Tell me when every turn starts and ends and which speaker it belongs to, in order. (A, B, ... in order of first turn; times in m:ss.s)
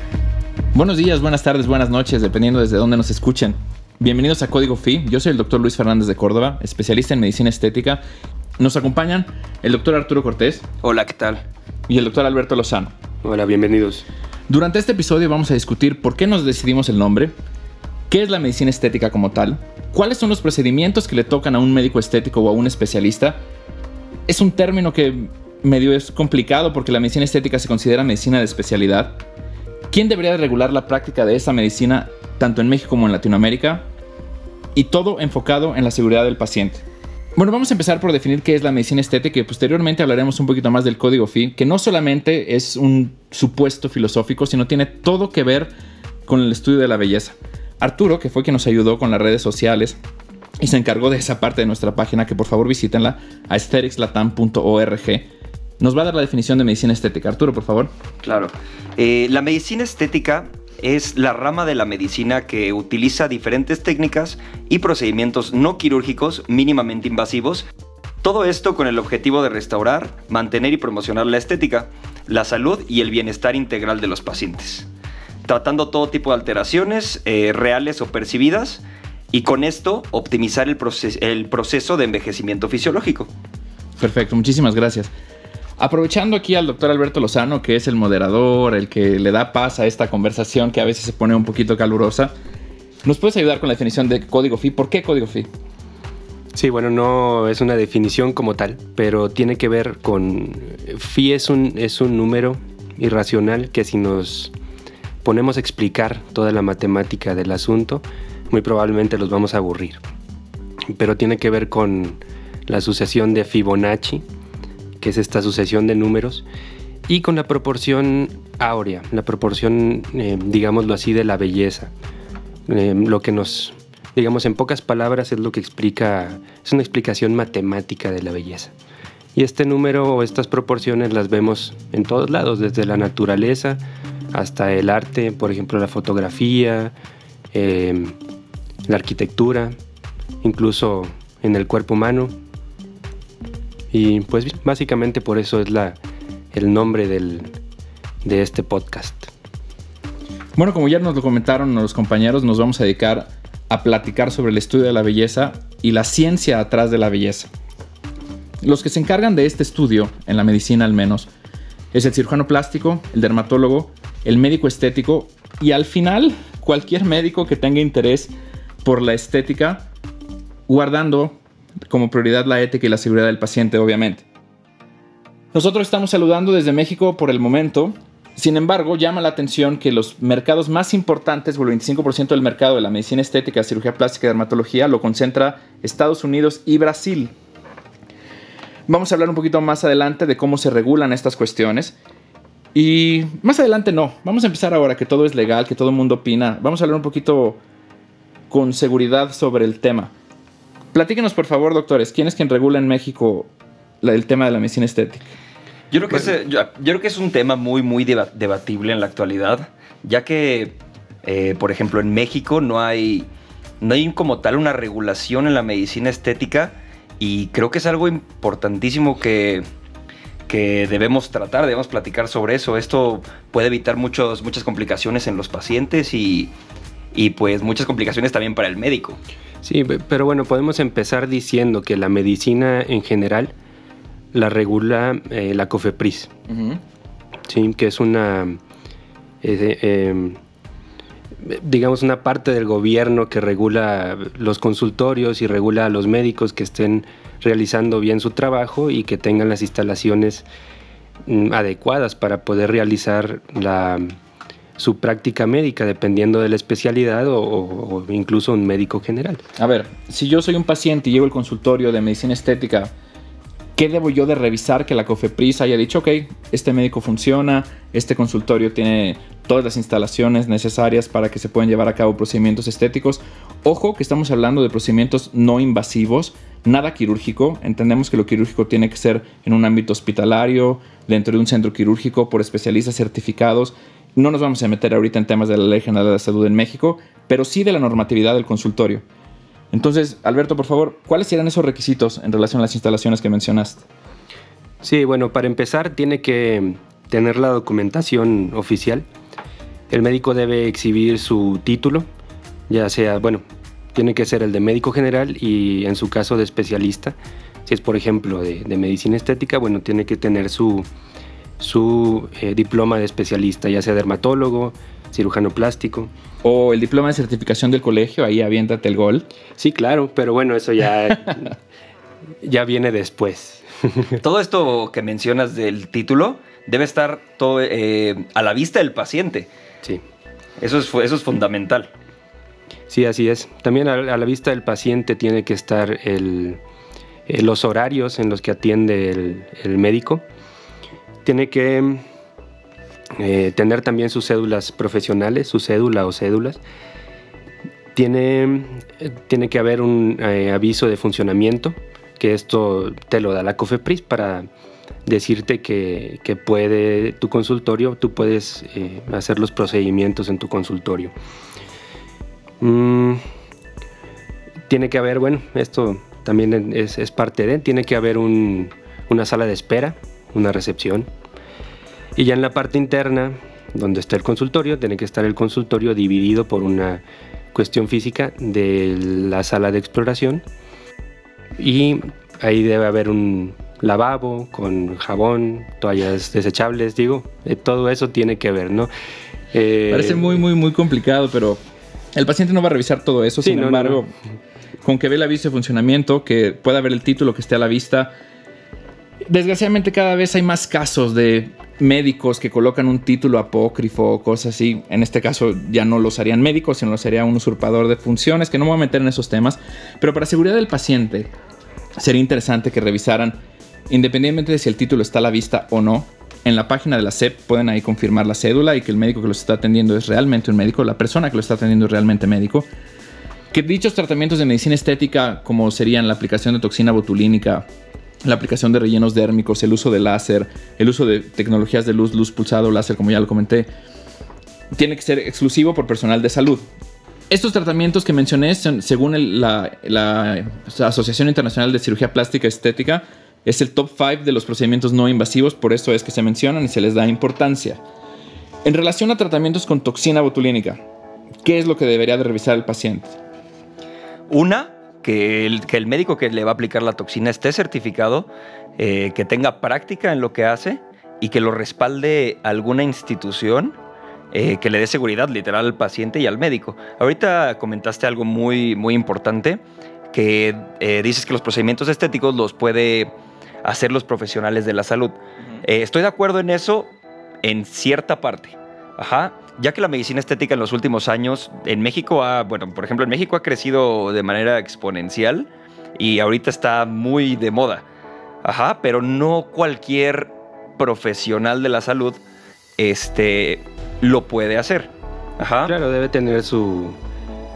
0:00.7-0:08.0 A
0:08.6-0:10.6 A
0:10.8-0:11.4 B
0:11.9-0:12.9 A
0:13.2-0:14.0 C
0:14.5-0:17.3 A
0:18.1-0:23.4 A
0:24.3-0:29.2 A
0:29.9-0:33.8 A
0:34.7-0:36.8 A
0:37.4-0:45.7 A
0:46.3-0:50.0 A
0:50.6-0:55.3 A
0:55.8-0:57.9 A
0:58.2-1:07.6 B
1:08.2-1:14.9 B
1:15.4-1:23.3 B
1:24.0-1:25.1 A
1:25.8-1:32.3 A
1:33.0-1:35.5 A
1:36.5-1:44.5 C
1:45.2-1:50.0 C
1:50.9-1:54.2 C
1:55.0-1:56.4 C
1:57.1-2:01.9 C
2:02.7-2:08.7 C
2:09.3-2:13.8 C
2:14.3-2:16.9 C
2:17.5-2:18.2 C
2:18.9-2:19.8 C
2:20.4-2:22.3 C
2:23.9-2:26.0 C
2:26.5-2:27.5 C
2:28.2-2:29.3 C
2:30.5-2:37.5 A
2:38.6-2:41.3 A
2:41.9-2:48.3 A
2:48.8-2:49.9 A
2:50.7-2:54.2 A
2:55.5-3:07.3 A
3:08.9-3:12.0 A
3:12.7-3:17.6 A
3:18.5-3:20.1 A
3:20.9-3:23.5 A
3:24.0-3:25.3 A
3:25.9-3:33.3 B
3:33.8-3:39.6 B
3:40.5-3:46.5 B
3:47.1-3:49.2 B
3:49.6-3:53.5 C
3:54.3-3:56.3 C
3:56.5-3:56.8 A
3:57.5-3:58.6 C
3:59.4-4:00.4 C
4:01.4-4:10.4 C
4:11.2-4:14.2 C
4:14.8-4:19.4 C
4:19.6-4:22.9 A
4:23.8-4:49.0 A
4:49.7-4:53.8 A
4:54.8-4:59.0 C
4:59.9-5:02.1 C
5:02.7-5:03.4 C
5:03.9-5:10.9 C
5:11.6-5:16.1 C
5:16.4-5:19.2 A
5:19.6-5:21.6 C
5:22.4-5:24.2 C
5:24.2-5:29.5 B
5:30.6-5:31.9 B
5:32.9-5:36.6 C
5:37.3-5:40.2 C
5:41.2-5:42.0 C
5:43.2-5:46.6 C
5:47.9-5:54.5 C
5:55.0-6:01.1 C
6:02.6-6:03.2 C
6:04.7-6:11.1 C
6:12.2-6:17.0 C
6:17.5-6:20.4 C
6:21.6-6:28.9 C
6:29.5-6:30.4 C
6:29.9-6:31.6 A
6:32.1-6:34.1 A
6:33.4-6:34.0 C
6:34.8-6:38.1 A
6:39.2-6:51.3 A
6:52.0-7:02.7 A
7:03.5-7:07.6 A
7:08.2-7:13.7 A
7:14.7-7:16.6 A
7:17.3-7:27.8 A
7:28.6-7:30.8 A
7:31.4-7:33.2 A
7:34.3-7:43.8 B
7:44.3-7:53.1 B
7:53.6-7:56.9 B
7:57.4-8:07.8 B
8:08.4-8:12.2 B
8:12.8-8:15.7 B
8:15.6-8:17.0 C